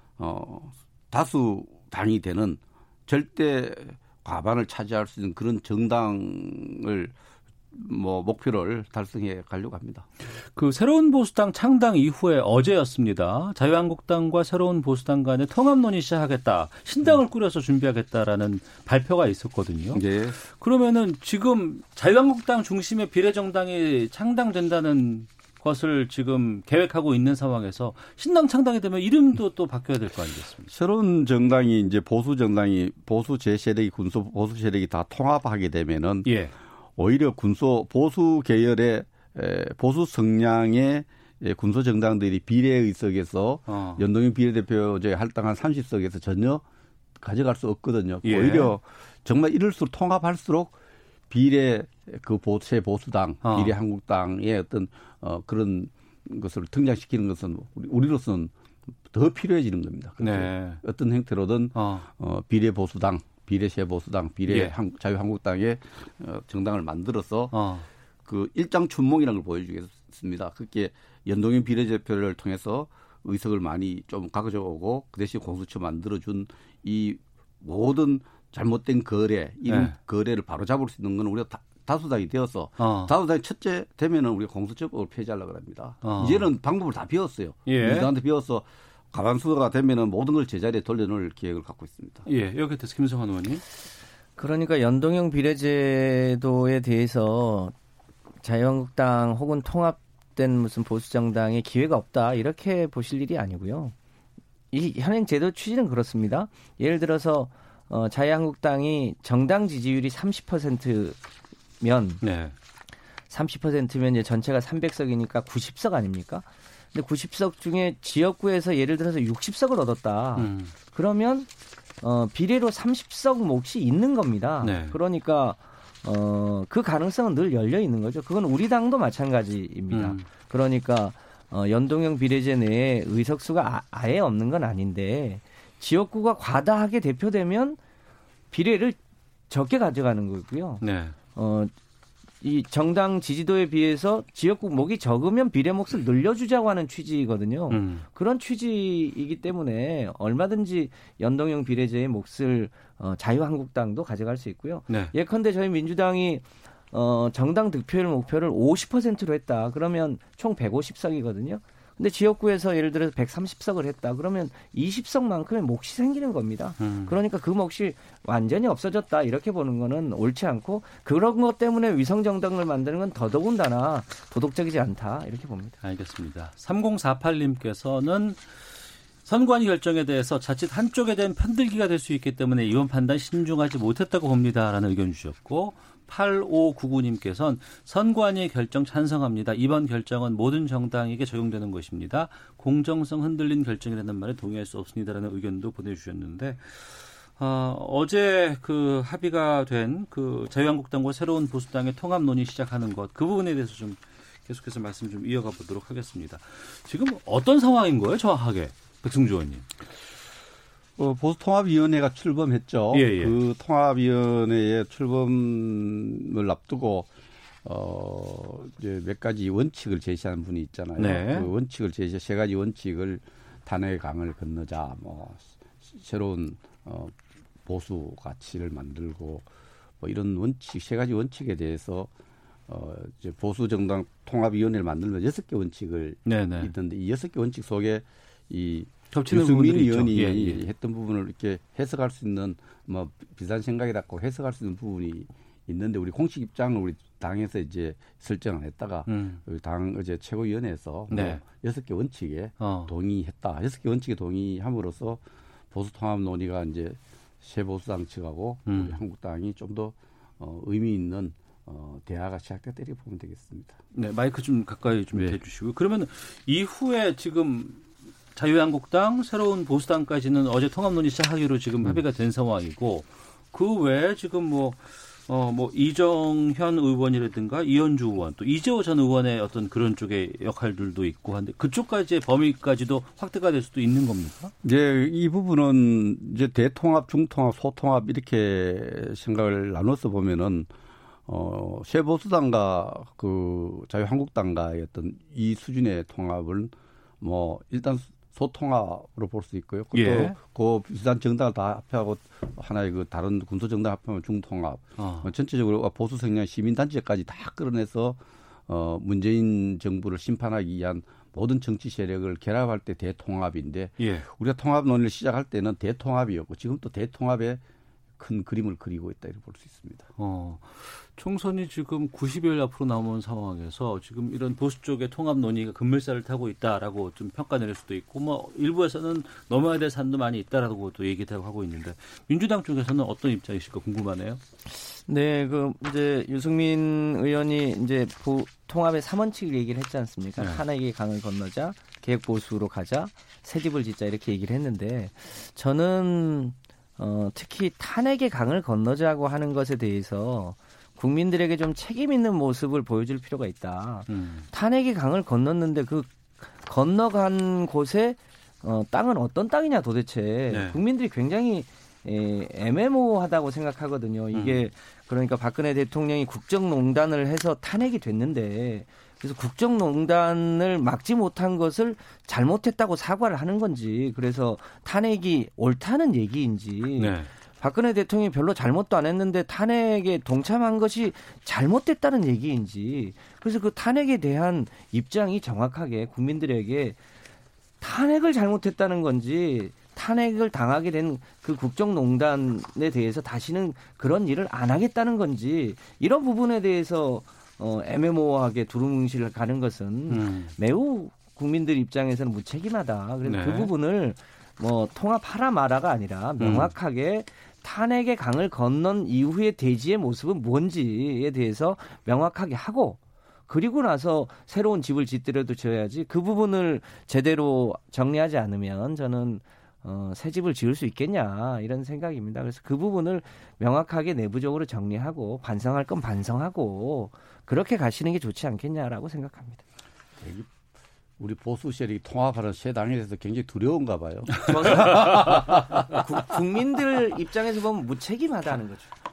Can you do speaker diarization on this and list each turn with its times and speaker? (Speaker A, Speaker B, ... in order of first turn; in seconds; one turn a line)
Speaker A: 0.2-7.1
Speaker A: 7.7-10.1
Speaker B: 10.6-30.7
Speaker A: 19.9-20.4
Speaker A: 30.7-36.3
Speaker B: 36.2-36.5
Speaker A: 37.0-46.6
Speaker B: 43.7-44.0
Speaker A: 47.2-50.7
Speaker B: 48.2-48.7
Speaker A: 51.3-58.5
Speaker B: 53.4-53.7
Speaker A: 59.1-67.5
Speaker B: 60.2-60.8
Speaker B: 61.7-62.1
Speaker B: 64.5-64.7
Speaker B: 67.5-67.9
Speaker A: 68.2-92.3
Speaker B: 79.7-79.9
Speaker B: 82.8-83.1
Speaker B: 86.0-86.5
Speaker B: 87.7-88.1
Speaker B: 92.2-93.6
Speaker C: 94.4-97.7
Speaker C: 98.4-103.9
Speaker C: 104.7-111.2
Speaker C: 111.8-112.2
Speaker B: 112.2-112.5
Speaker C: 113.3-121.5
Speaker B: 120.4-120.7
Speaker C: 122.0-137.8
Speaker B: 124.6-125.0
Speaker B: 129.9-130.2
Speaker C: 138.5-139.0
Speaker C: 139.5-141.7
Speaker B: 140.8-141.1
Speaker C: 142.4-175.8
Speaker B: 147.7-148.0
Speaker B: 166.8-167.2
Speaker B: 175.8-178.4
Speaker B: 179.2-209.7
Speaker A: 211.0-217.1
Speaker B: 212.9-213.3
Speaker A: 217.6-229.4
Speaker B: 221.0-221.5
Speaker A: 230.0-232.1
Speaker A: 232.7-263.8
Speaker B: 236.3-236.7
Speaker B: 239.1-240.6
Speaker B: 249.1-249.4
Speaker B: 251.1-251.4
Speaker B: 252.6-252.9
Speaker B: 258.7-259.0
Speaker B: 263.9-284.5
Speaker A: 265.1-265.4
Speaker A: 284.6-290.7
Speaker A: 291.3-317.6
Speaker B: 299.9-300.4
Speaker B: 305.0-305.3
Speaker B: 314.0-314.3
Speaker A: 318.2-320.1
Speaker B: 320.2-334.4
Speaker C: 335.1-387.0
Speaker B: 354.1-354.4
Speaker B: 360.5-360.8
Speaker B: 364.3-364.6
Speaker B: 377.0-377.3
Speaker C: 387.8-429.6
Speaker B: 400.1-400.5
Speaker B: 403.2-403.7
Speaker B: 406.4-406.7
Speaker A: 430.2-430.5
Speaker A: 431.2-435.8
Speaker C: 434.4-438.9